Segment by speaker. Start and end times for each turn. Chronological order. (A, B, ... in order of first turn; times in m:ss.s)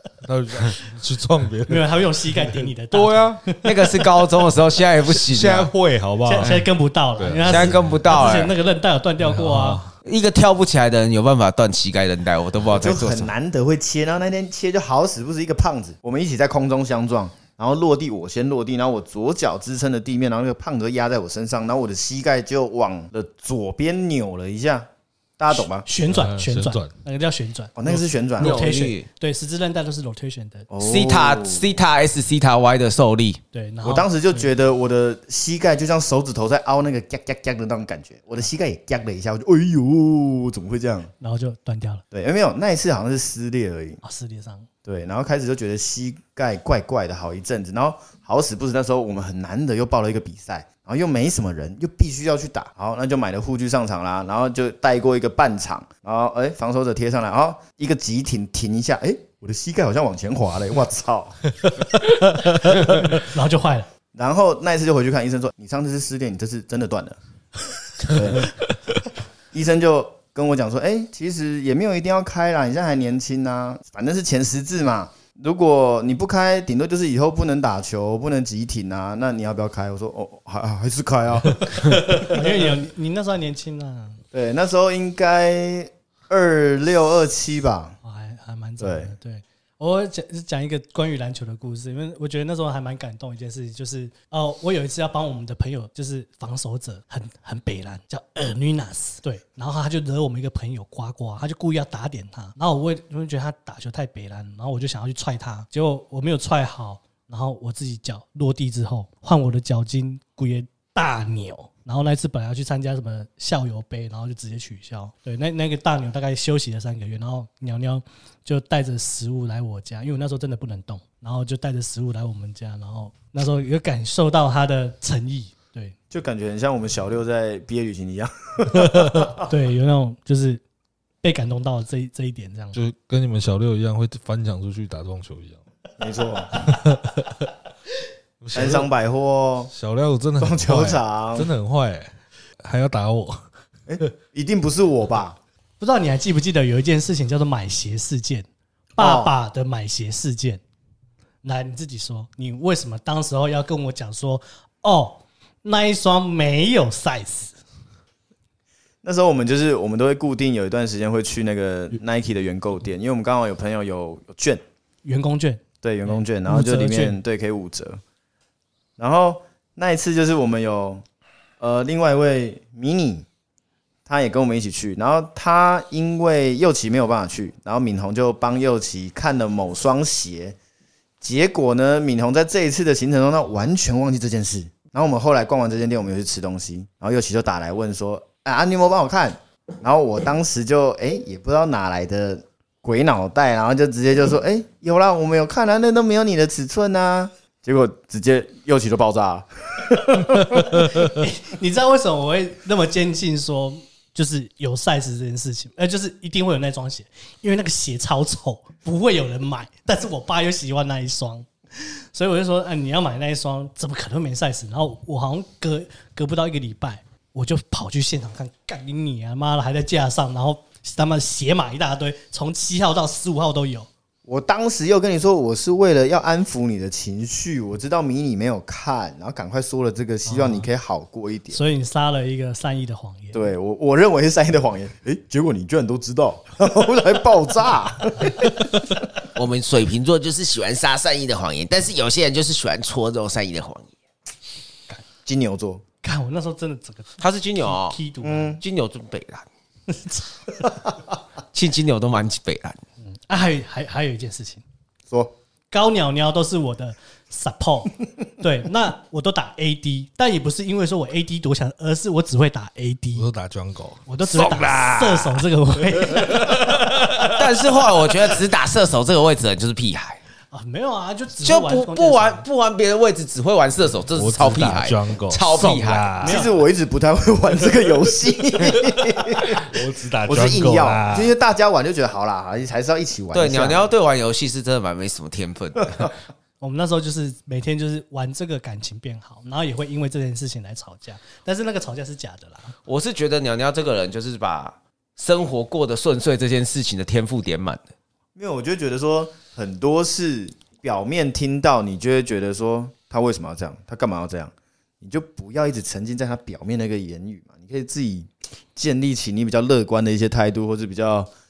0:00.2-0:03.5 A
0:01.7-0:03.9 B
0:03.6-0:05.7 C
0:05.1-0:08.4 A
0:06.2-0:09.8 B
0:07.4-0:08.5 C
0:09.2-0:10.0 A
0:10.0-0:13.3 C
0:12.7-0:24.9 D
0:25.4-0:25.9 D
0:25.5-0:30.7 B
0:26.1-0:26.9 A
0:27.8-0:28.6 D
0:28.4-0:29.1 C
0:30.7-0:31.7 D
0:30.8-0:33.4 C
0:33.5-0:34.5 B
0:33.8-0:41.1 D
0:41.2-0:42.0 B
0:42.1-0:44.0 D
0:44.0-0:44.7 B
0:44.8-1:01.5 D
1:02.4-1:03.9 B
1:04.1-1:07.2 D
1:08.1-1:08.5 D
1:09.5-1:22.4 D
1:22.1-1:24.2 B
1:24.3-1:28.0 D
1:28.0-2:05.9 B
1:28.8-1:29.1 D
2:06.1-2:09.4 D
2:09.4-2:10.6 B
2:11.2-2:12.8 B
2:12.7-2:15.6 A
2:16.0-2:16.7 D
2:16.6-2:17.5 A
2:18.4-2:18.9 A
2:18.5-2:19.7 D
2:19.7-2:23.4 A
2:20.4-2:21.5 D
2:23.9-2:25.4 D
2:25.8-2:30.6 B
2:29.0-2:29.3 D
2:31.4-2:37.6 B
2:39.0-2:44.6 D
2:45.0-2:47.2 B
2:45.8-2:48.0 D
2:49.0-2:51.0 D
2:51.6-2:53.2 D
2:54.1-3:00.6 D
3:01.2-3:20.9 D
3:20.8-3:43.9 B
3:44.2-3:51.6 D
3:50.2-3:50.7 B
3:51.5-3:53.5 B
3:53.3-3:59.0 D
3:59.4-4:03.9 C
4:05.2-4:05.8 D
4:06.0-4:08.6 B
4:07.2-4:08.0 C
4:08.2-4:08.6 D
4:08.6-4:09.5 C
4:09.9-4:10.2 B
4:11.5-4:12.8 C
4:13.0-4:14.6 B
4:15.1-4:15.4 D
4:15.7-4:23.3 B
4:23.2-4:25.0 A
4:24.1-4:27.4 B
4:26.0-4:27.4 A
4:27.4-4:30.2 C
4:30.5-4:32.4 B
4:31.4-4:36.1 C
4:34.1-4:36.4 A
4:36.2-4:36.5 B
4:36.2-4:39.7 D
4:38.7-4:41.3 A
4:40.2-4:43.9 D
4:43.3-4:46.2 C
4:46.6-4:52.7 B
4:52.8-4:57.8 C
4:58.4-5:11.3 D